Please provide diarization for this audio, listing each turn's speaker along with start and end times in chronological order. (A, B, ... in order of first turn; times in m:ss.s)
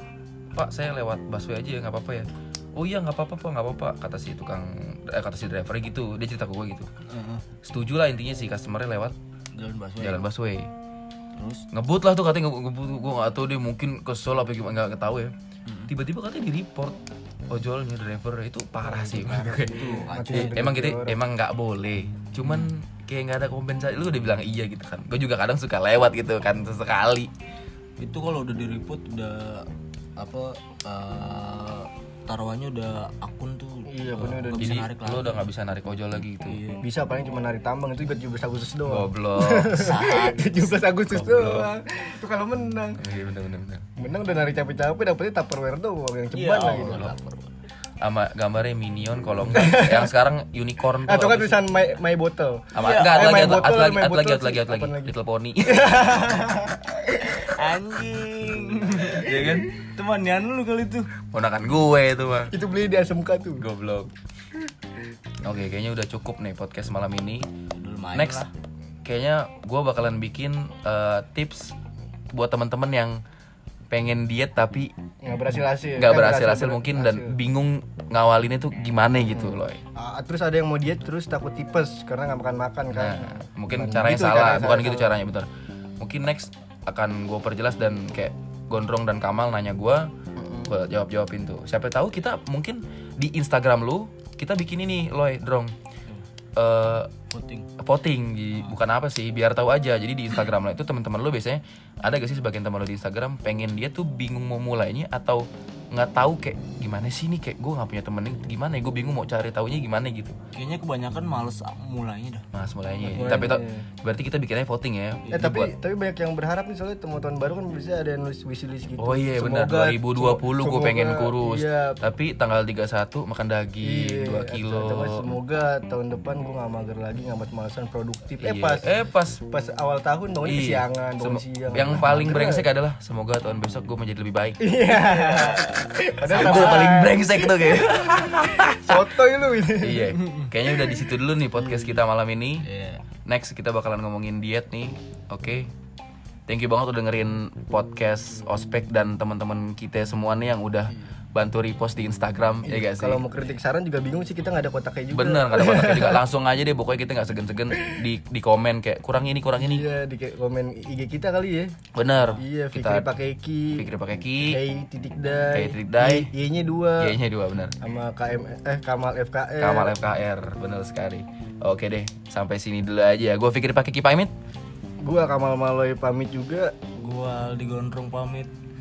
0:00.5-0:06.9 A
0:07.1-0:07.4 B
0:07.6-0:09.1 A
0:09.5-0:10.2 B
0:10.0-0:10.7 A
0:11.4-0:11.6 B
0:11.7-0:15.3 A
0:15.9-0:17.0 A
0:17.5-0:27.3 A
0:19.0-0:20.6 B
0:19.4-0:21.2 C
0:28.0-0:35.4 B
0:33.9-0:34.7 C
0:34.5-0:36.6 A
0:36.4-0:36.8 B
0:36.8-0:43.0 C
0:38.8-0:40.0 A
0:39.8-0:40.8 B
0:41.1-0:41.7 A
0:43.0-0:43.8 A
0:44.0-0:47.0 C
0:46.3-0:47.5 B
0:48.0-0:51.7 A
0:49.5-0:50.0 C
0:51.0-0:55.1 C
0:52.7-0:56.2 A
0:52.8-0:53.3 B
0:55.6-0:57.2 C
0:57.3-1:01.1 B
0:59.1-0:59.7 A
1:01.3-1:02.5 A
1:02.5-1:03.6 C
1:03.6-1:04.1 A
1:05.4-1:07.5 A
1:07.7-1:08.5 B
1:08.1-1:08.5 A
1:09.0-1:11.8 A
1:12.3-1:13.2 A
1:13.9-1:14.9 A
1:15.2-1:17.4 C
1:15.9-1:19.8 A
1:19.3-1:25.1 C
1:22.9-1:25.5 A
1:26.0-1:30.1 A
1:30.4-1:30.7 C
1:30.6-1:35.7 A
1:36.6-1:37.1 A
1:37.3-1:37.7 B
1:37.8-1:50.4 A
1:50.5-1:52.4 B
1:52.5-1:55.7 A
1:53.0-1:53.5 B
1:53.2-1:53.8 C
1:55.3-2:02.0 C
1:59.0-2:05.4 A
2:03.8-2:08.9 C
2:08.4-2:09.4 A
2:09.4-2:12.7 C
2:10.4-2:14.6 A
2:14.6-2:17.2 C
2:14.9-2:15.8 B
2:16.3-2:19.1 A
2:16.3-2:16.8 B
2:18.9-2:20.1 C
2:19.8-2:22.6 A
2:20.2-2:20.5 B
2:21.6-2:21.9 C
2:22.6-2:23.0 B
2:23.2-2:25.7 A
2:26.5-2:33.2 A
2:32.6-2:36.2 C
2:35.1-2:39.9 A
2:39.6-2:41.7 C
2:41.9-2:43.1 A
2:42.4-2:43.8 C
2:43.7-2:44.6 A
2:44.5-2:47.1 C
2:45.5-2:46.3 A
2:47.0-2:47.8 A
2:47.8-2:50.0 C
2:49.6-2:54.3 A
2:55.0-2:56.7 C
2:57.0-2:58.5 B